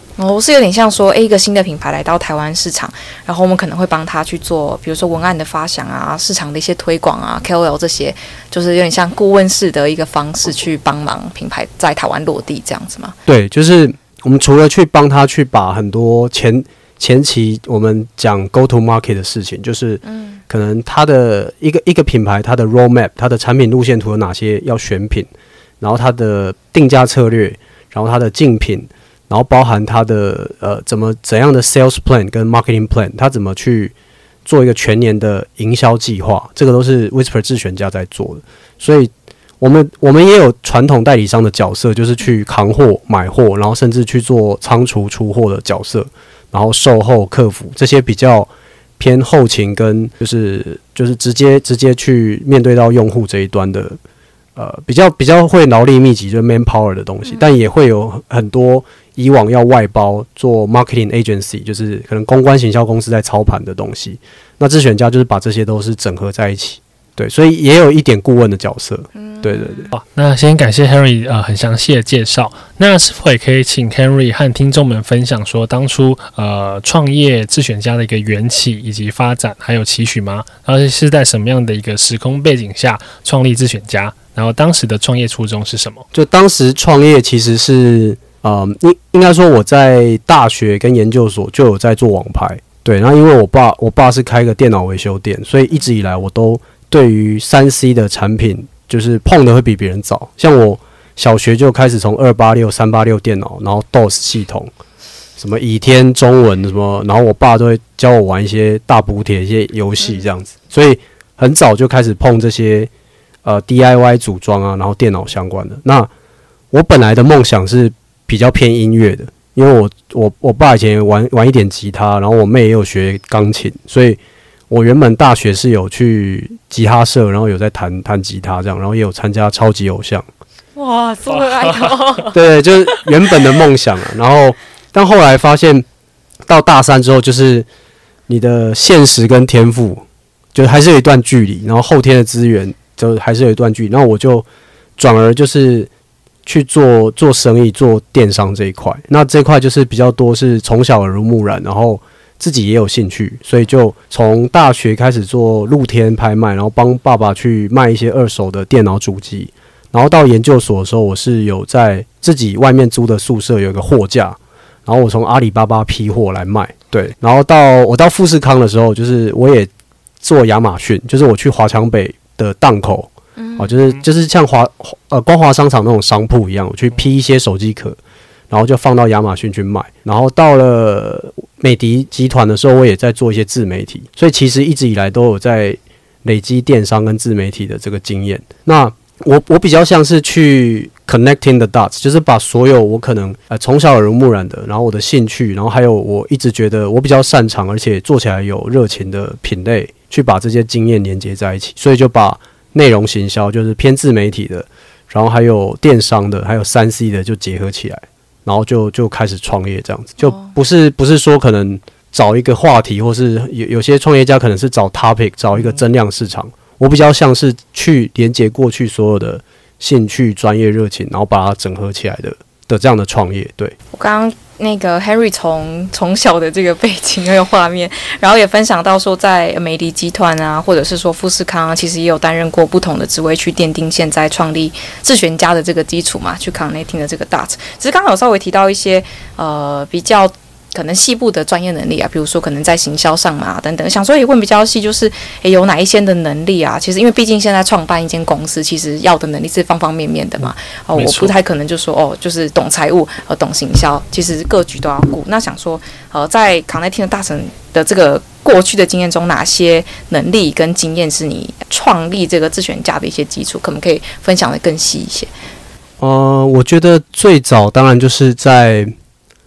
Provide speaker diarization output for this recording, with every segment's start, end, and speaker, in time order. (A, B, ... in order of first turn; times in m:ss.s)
0:00.2-0:13.2 A
0:13.2-0:25.3 B
0:20.0-0:20.4 A
0:25.8-0:39.1 B
0:39.6-0:54.0 B
0:54.6-1:09.9 B
1:09.2-1:09.9 A
1:09.9-1:26.0 C
1:26.1-1:44.7 B
1:45.4-1:52.9 B
1:50.0-1:50.3 A
1:53.4-1:56.1 B
1:56.7-2:10.2 B
2:10.8-2:12.4 A
2:12.3-2:15.8 B
2:16.5-2:17.7 B
2:18.3-2:20.0 B
2:20.5-2:24.4 B
2:25.0-2:25.9 B
2:26.4-2:49.7 B
2:50.2-2:58.0 B
2:53.4-2:53.8 A
2:58.5-3:43.8 B
3:30.2-3:30.5 A
3:43.9-4:25.3 A
4:11.0-4:11.3 C
4:26.0-4:28.9 B